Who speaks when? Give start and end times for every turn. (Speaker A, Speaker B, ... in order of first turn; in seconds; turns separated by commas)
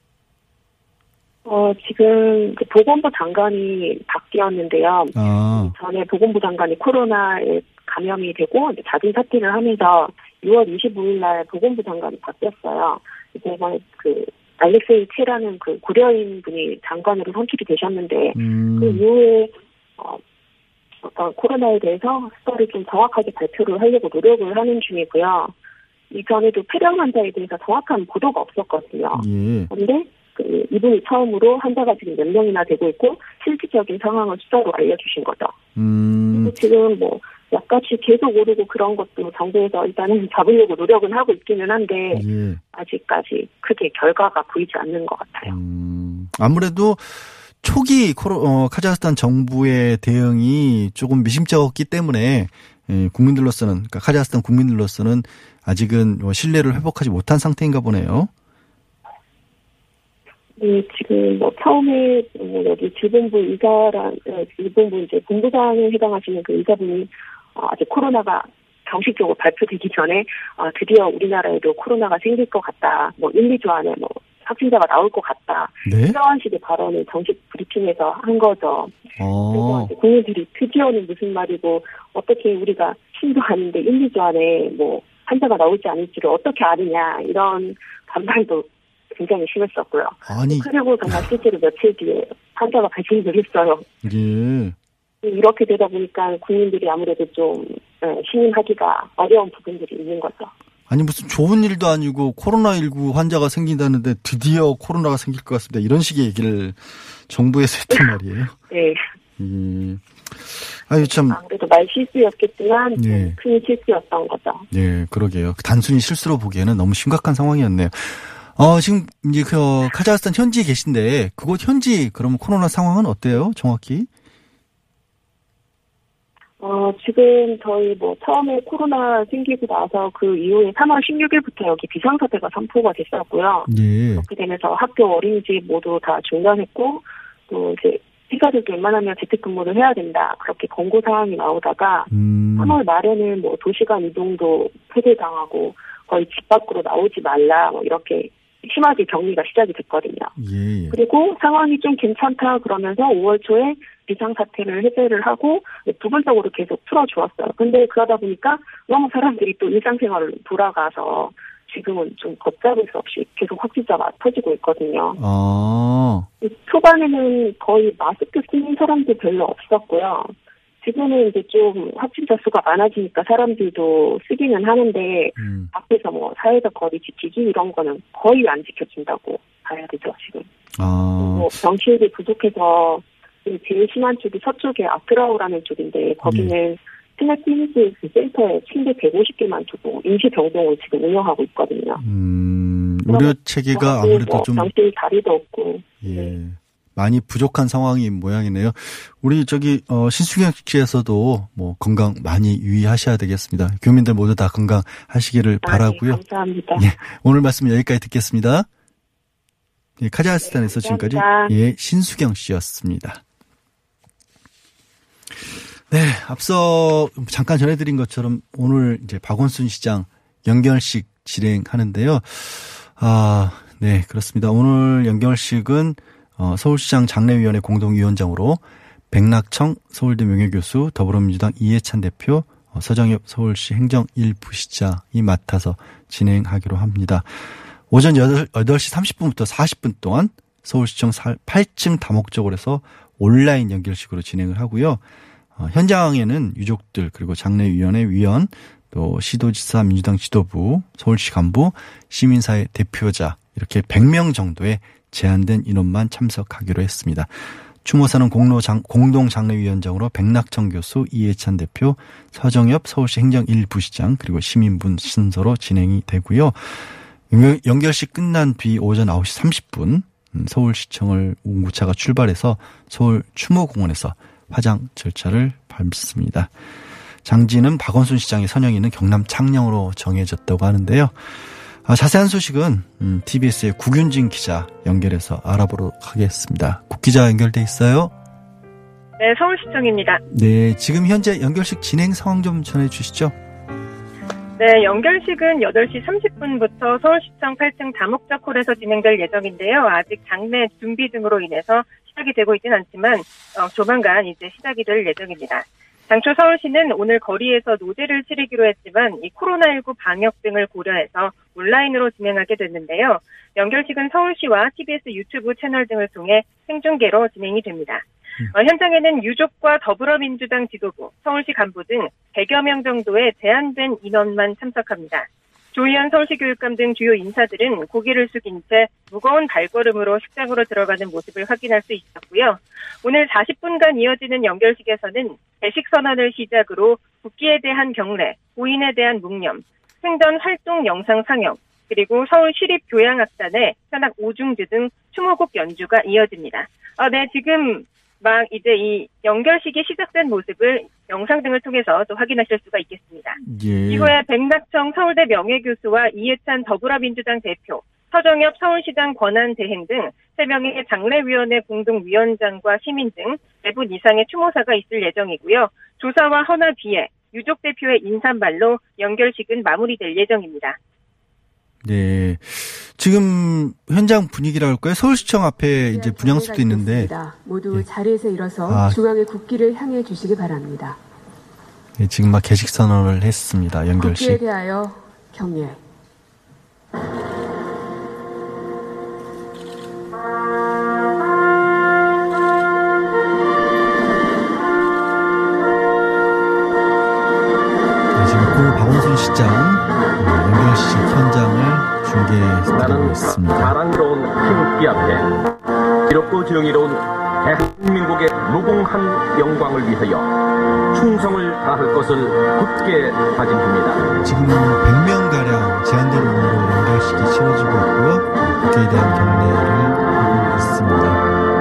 Speaker A: 1.4-20.2, Speaker B: 5.1-5.7, Speaker B: 18.3-19.0, Speaker A: 21.0-25.5, Speaker A: 26.1-35.5, Speaker B: 29.1-29.7, Speaker B: 35.7-36.5, Speaker A: 36.3-45.5, Speaker B: 42.1-42.6, Speaker B: 45.4-58.3, Speaker A: 60.6-93.9, Speaker B: 75.8-76.2, Speaker B: 79.2-79.9, Speaker B: 90.2-91.2, Speaker B: 94.0-94.7, Speaker A: 95.2-100.5, Speaker B: 100.9-108.5, Speaker A: 108.7-109.0, Speaker B: 109.4-111.4, Speaker A: 111.0-114.7, Speaker B: 113.0-113.4, Speaker B: 114.7-124.1, Speaker A: 126.6-150.3, Speaker B: 133.7-134.3, Speaker B: 142.1-142.8, Speaker B: 150.4-151.0, Speaker A: 150.9-165.2, Speaker B: 165.2-166.3, Speaker A: 166.4-180.5, Speaker B: 175.4-175.7, Speaker B: 180.7-181.5, Speaker A: 181.2-192.0, Speaker B: 186.2-186.5, Speaker B: 192.0-194.7, Speaker A: 193.1-196.3, Speaker B: 196.0-206.2, Speaker A: 205.6-206.9, Speaker B: 206.7-208.7, Speaker B: 210.0-213.2, Speaker A: 210.4-211.5, Speaker B: 215.9-237.3, Speaker B: 237.9-245.0, Speaker B: 245.6-257.3, Speaker B: 257.8-276.5, Speaker B: 277.2-281.1, Speaker B: 281.8-288.1, Speaker C: 289.2-290.2, Speaker B: 290.3-293.3, Speaker C: 294.6-370.8, Speaker B: 353.4-354.2, Speaker B: 371.8-377.1, Speaker D: 375.7-381.0, Speaker B: 378.7-379.0, Speaker B: 382.0-384.4, Speaker D: 384.0-385.8, Speaker B: 398.1-403.8, Speaker E: 402.7-405.3, Speaker E: 406.1-410.3, Speaker E: 410.9-414.1, Speaker B: 414.2-421.3